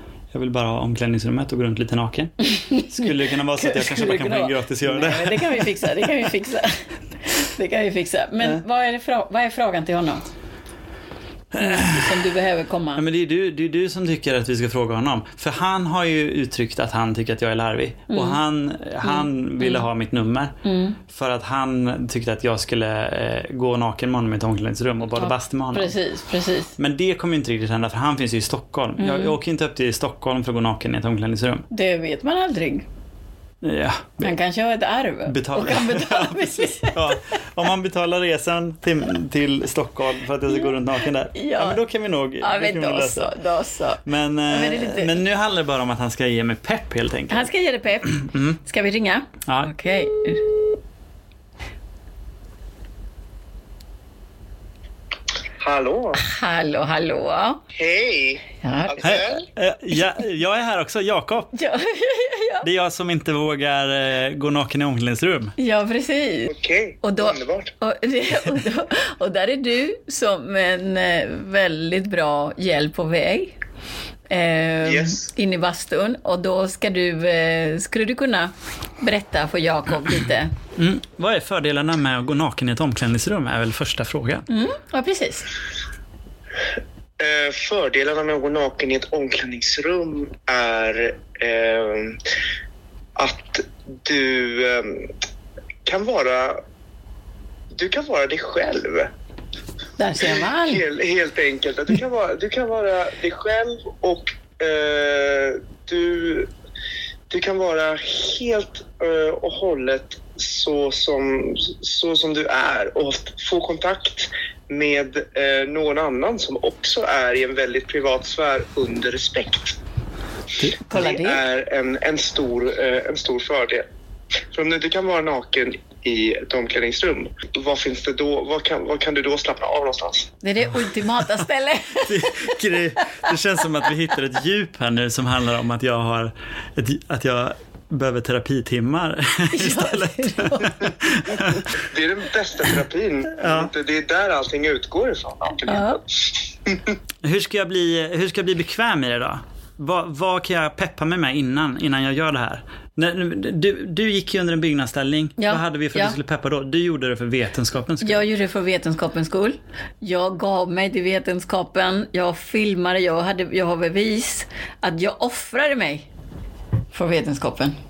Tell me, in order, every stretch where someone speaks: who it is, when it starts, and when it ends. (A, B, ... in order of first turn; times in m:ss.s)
0:00.3-0:06.1 A
0:02.4-0:10.2 B
0:11.5-0:12.2 A
0:11.6-0:13.0 B
0:13.0-0:25.9 A
0:18.1-0:18.4 B
0:19.0-0:19.8 B
0:20.6-0:21.0 B
0:25.2-0:26.8 B
0:26.8-0:31.6 A
0:29.0-0:29.4 B
0:31.7-0:32.8 B
0:33.6-0:34.3 A
0:34.2-0:37.3 B
0:35.2-0:43.3 A
0:40.5-0:40.8 B
0:41.3-0:41.8 B
0:42.4-0:45.2 B
0:44.0-0:47.5 A
0:47.3-0:50.6 B
0:48.1-0:48.6 A
0:49.5-0:49.7 A
0:55.6-0:56.2 C
0:56.2-0:57.6 B
0:57.7-0:59.4 C
0:58.6-0:59.2 B
0:59.0-1:01.5 A
1:01.5-1:02.7 B
1:02.6-1:05.6 A
1:05.6-1:13.6 B
1:06.5-1:07.7 C
1:14.3-1:20.5 B
1:14.8-1:15.3 C
1:20.8-1:24.4 A
1:24.5-1:25.5 B
1:27.2-1:32.2 C
1:33.2-1:35.1 C
1:35.8-1:36.6 C
1:37.7-1:39.1 C
1:40.0-1:40.8 B
1:40.2-1:46.5 C
1:47.3-1:59.8 C
2:00.9-2:01.4 B
2:00.9-2:03.8 C
2:04.5-2:10.3 C
2:10.4-2:13.3 B
2:12.0-2:21.7 A
2:19.5-2:21.4 B
2:21.7-2:26.0 C
2:23.4-2:23.7 A
2:25.6-2:26.0 B
2:27.2-2:38.3 A
2:35.4-2:36.2 B
2:38.0-2:46.1 B
2:46.9-2:47.7 B